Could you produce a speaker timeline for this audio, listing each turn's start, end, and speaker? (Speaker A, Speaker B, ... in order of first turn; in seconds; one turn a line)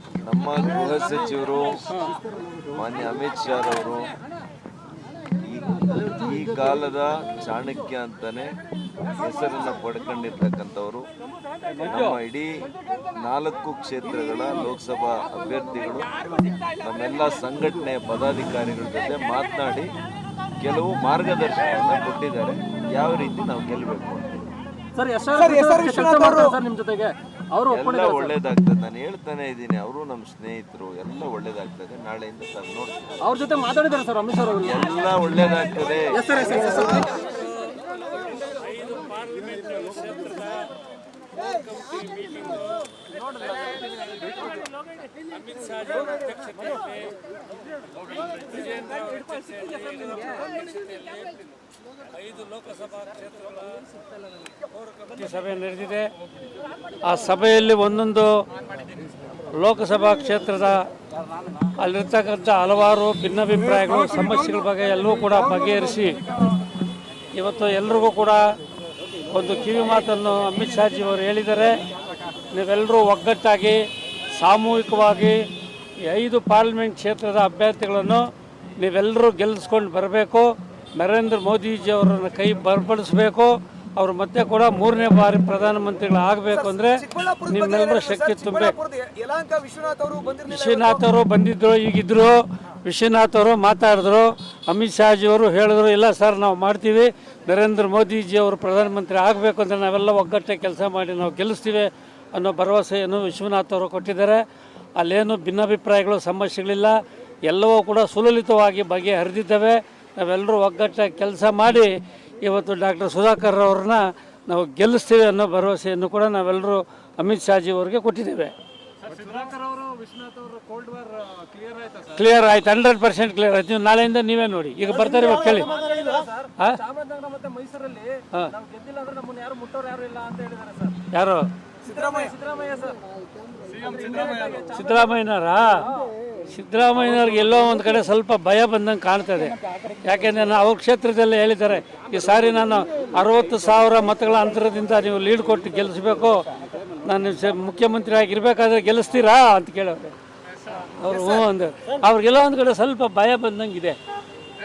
Speaker A: 0.2-2.0
Speaker A: 2.7-4.1
Speaker A: 5.4-8.6
Speaker A: 9.1-11.1
Speaker A: 11.8-16.1
Speaker A: 16.7-19.9
Speaker A: 20.6-24.5
Speaker B: 24.9-28.3
Speaker C: 25.4-26.4
Speaker A: 27.7-33.2
Speaker B: 33.2-34.8
Speaker A: 34.6-36.6
Speaker B: 36.1-37.1
Speaker D: 38.4-40.6
Speaker D: 41.5-42.6
Speaker D: 45.5-46.8
Speaker D: 48.3-50.5
Speaker D: 52.1-53.6
Speaker D: 55.0-56.1
Speaker D: 57.0-58.4
Speaker D: 59.5-60.9
Speaker D: 61.7-66.2
Speaker D: 67.3-68.5
Speaker D: 69.3-71.8
Speaker D: 72.5-88.8
Speaker C: 86.8-91.0
Speaker D: 90.5-104.4
Speaker D: 105.0-118.5
Speaker B: 119.2-121.2
Speaker D: 122.0-125.7
Speaker B: 125.5-131.0
Speaker D: 131.1-131.5
Speaker B: 131.8-133.0
Speaker B: 133.7-134.9
Speaker D: 134.7-135.9
Speaker D: 136.5-146.5
Speaker D: 147.0-150.2
Speaker D: 150.7-154.0